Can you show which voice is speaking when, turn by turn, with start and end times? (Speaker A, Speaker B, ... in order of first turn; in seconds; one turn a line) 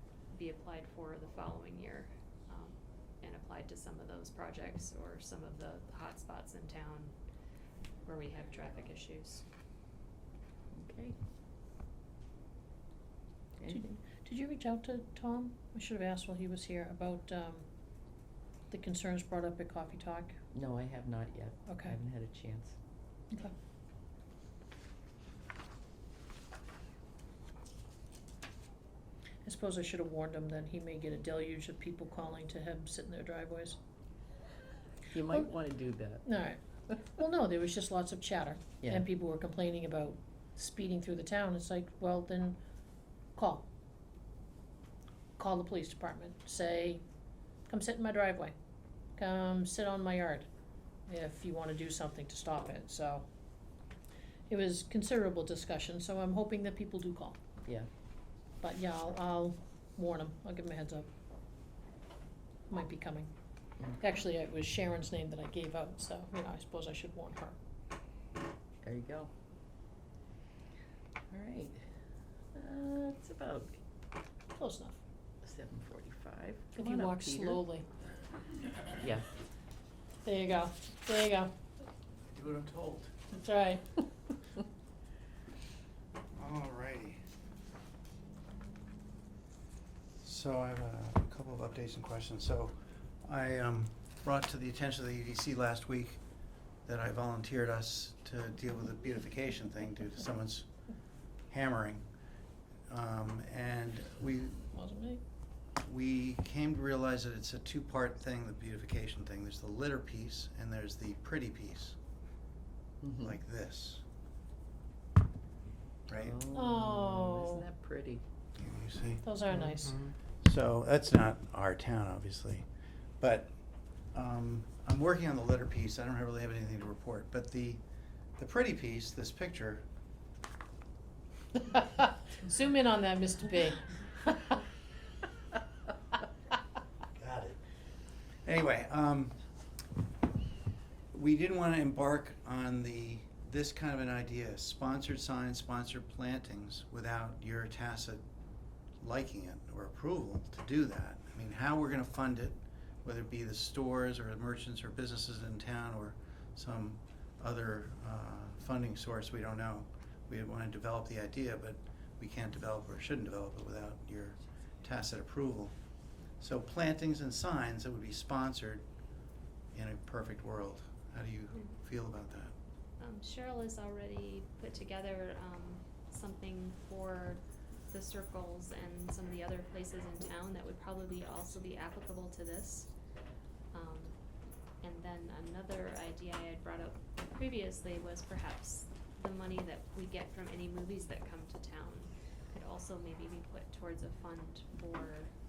Speaker A: 0.3-7.2
Speaker A: 8.1-9.4
Speaker B: 10.7-11.2
Speaker B: 13.6-14.0
Speaker C: 13.7-17.6
Speaker C: 18.7-20.4
Speaker B: 20.5-22.8
Speaker C: 21.7-22.0
Speaker C: 29.4-33.8
Speaker B: 35.1-36.3
Speaker C: 36.3-36.6
Speaker C: 37.1-42.6
Speaker B: 38.8-39.1
Speaker C: 43.4-43.7
Speaker C: 45.4-47.0
Speaker C: 47.7-48.5
Speaker C: 49.2-50.5
Speaker C: 51.1-53.2
Speaker C: 54.5-57.4
Speaker C: 58.6-61.1
Speaker C: 62.7-63.3
Speaker C: 64.0-67.5
Speaker B: 68.8-69.3
Speaker B: 71.3-71.8
Speaker B: 72.5-73.8
Speaker C: 74.6-75.0
Speaker B: 75.4-77.6
Speaker C: 76.8-77.9
Speaker B: 79.0-79.3
Speaker C: 80.2-81.5
Speaker D: 82.3-83.2
Speaker C: 83.3-83.9
Speaker D: 86.4-87.2
Speaker D: 90.2-96.2
Speaker D: 96.9-100.7
Speaker D: 101.5-102.0
Speaker D: 102.9-104.7
Speaker C: 104.7-105.2
Speaker D: 105.8-112.0
Speaker B: 113.0-113.4
Speaker D: 113.2-114.0
Speaker D: 116.1-116.4
Speaker B: 116.1-118.2
Speaker C: 116.5-117.7
Speaker D: 118.6-119.2
Speaker C: 119.2-120.0
Speaker D: 119.9-122.7
Speaker D: 123.2-123.5
Speaker D: 124.1-127.8
Speaker D: 128.4-129.8
Speaker C: 131.7-134.5
Speaker D: 137.2-137.6
Speaker D: 138.4-139.4
Speaker D: 141.1-148.2
Speaker D: 149.0-165.7
Speaker D: 166.4-168.9
Speaker D: 169.7-172.5
Speaker A: 173.0-182.9
Speaker A: 183.7-184.2
Speaker A: 184.8-195.3